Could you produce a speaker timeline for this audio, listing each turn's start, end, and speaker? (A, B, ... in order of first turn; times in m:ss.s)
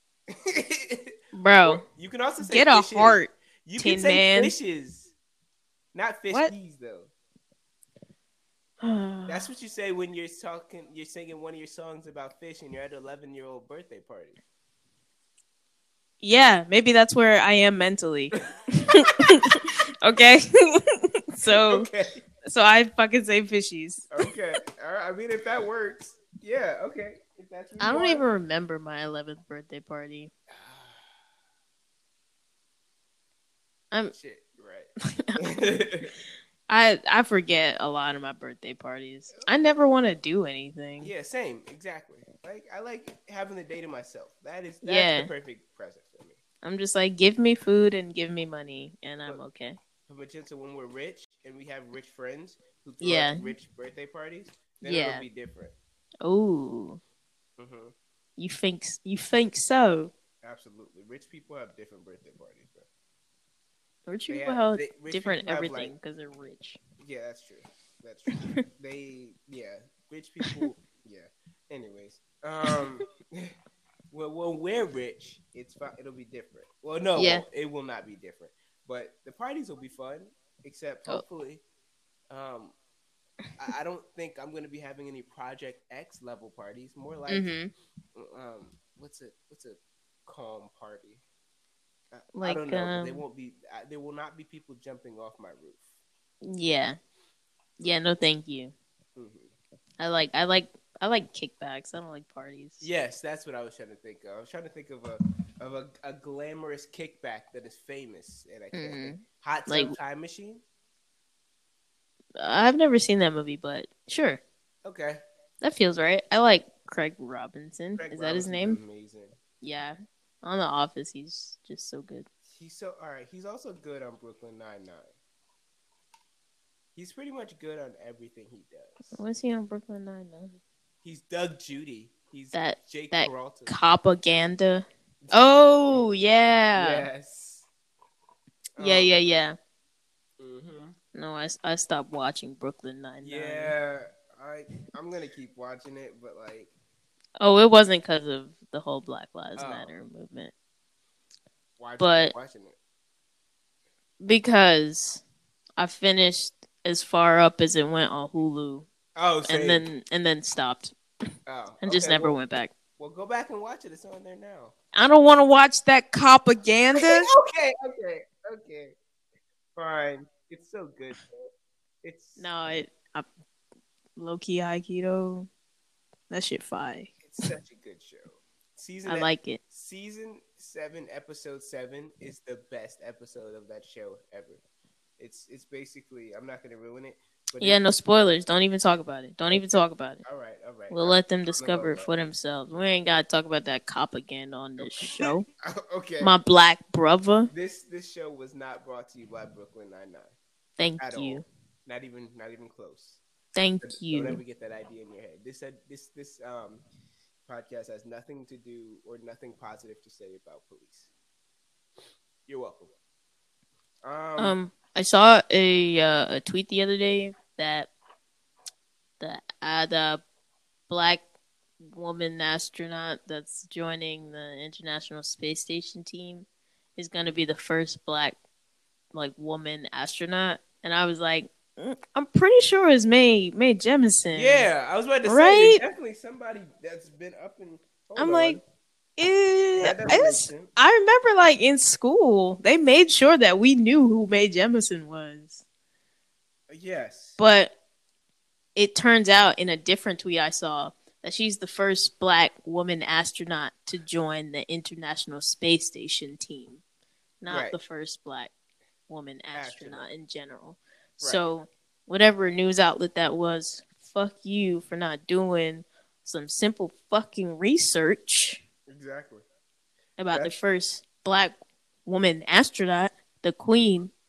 0:00.3-0:05.1 A
0:01.3-0:01.8 B
0:02.4-0:04.5 B
0:05.9-0:07.1 A
0:08.8-0:09.4 B
0:09.3-0:14.4 A
0:16.2-0:21.9 B
0:18.8-0:19.1 A
0:21.4-0:22.2 A
0:22.4-0:24.1 B
0:24.1-0:28.2 A
0:27.8-0:30.3 B
0:30.5-0:31.2 A
0:34.1-0:36.1 A
0:36.7-0:41.1 B
0:39.3-0:39.7 A
0:41.0-0:46.4 A
0:44.8-0:45.3 B
0:46.6-0:49.8 B
0:50.1-0:55.7 A
0:53.0-0:53.5 B
0:54.8-0:55.2 B
0:56.2-0:57.0 B
0:57.6-0:57.9 A
0:58.4-1:00.1 B
1:00.4-1:02.9 A
1:04.1-1:06.8 B
1:04.3-1:05.9 A
1:07.0-1:13.5 A
1:08.3-1:08.6 B
1:14.1-1:21.6 A
1:17.2-1:17.4 B
1:22.3-1:22.8 A
1:23.6-1:27.5 A
1:27.3-1:27.7 B
1:28.1-1:31.2 A
1:32.1-1:36.0 A
1:32.4-1:33.2 B
1:36.4-1:37.0 B
1:37.8-1:38.7 B
1:39.2-1:39.5 A
1:40.0-1:42.8 B
1:42.8-1:50.6 A
1:48.7-1:50.0 B
1:52.4-1:54.4 B
1:54.8-1:55.2 A
1:55.6-1:58.8 B
1:58.0-1:59.4 A
1:59.6-2:02.3 B
2:02.5-2:05.1 A
2:07.0-2:09.2 A
2:09.1-2:10.6 B
2:11.0-2:13.8 A
2:12.5-2:17.1 B
2:16.7-2:17.7 A
2:18.8-2:19.1 A
2:18.8-2:19.6 B
2:20.4-2:21.0 A
2:21.1-2:23.8 B
2:23.2-2:26.7 A
2:27.4-2:30.5 B
2:29.6-2:29.9 A
2:31.8-2:32.8 A
2:32.0-2:32.3 B
2:34.2-2:35.2 B
2:35.8-2:38.9 B
2:39.2-2:39.8 A
2:39.5-2:41.0 B
2:41.5-2:42.4 A
2:41.8-2:42.7 B
2:43.0-2:44.8 A
2:44.9-2:47.3 B
2:47.0-2:48.9 A
2:49.8-2:51.4 A
2:52.0-2:52.5 A
2:52.4-2:53.3 B
2:54.2-2:55.5 B
2:56.3-2:57.1 B
2:57.2-3:04.6 A
2:59.1-2:59.6 B
3:05.2-3:07.9 A
3:07.6-3:10.2 B
3:09.5-3:12.1 A
3:10.9-3:15.5 B
3:14.8-3:16.4 A
3:16.2-3:17.5 B
3:17.5-3:20.3 A
3:20.8-3:21.4 B
3:21.0-3:23.2 A
3:23.6-3:24.4 B
3:23.8-3:26.8 A
3:27.5-3:31.1 A
3:32.5-3:32.9 A
3:34.0-3:34.6 A
3:34.4-3:37.9 B
3:39.2-3:40.2 B
3:40.9-3:41.2 B
3:41.8-3:48.4 B
3:49.1-3:54.7 B
3:54.3-3:58.6 A
3:55.2-3:55.8 B
3:58.2-3:58.6 B
3:59.2-4:05.6 B
3:59.8-4:00.7 A
4:06.7-4:07.4 A
4:07.4-4:07.7 B
4:08.8-4:16.8 B
4:17.4-4:18.5 B
4:17.5-4:17.8 A
4:19.1-4:28.6 B
4:19.5-4:20.1 A
4:28.9-4:29.4 A
4:30.2-4:31.6 B
4:30.3-4:30.6 A
4:32.1-4:34.1 B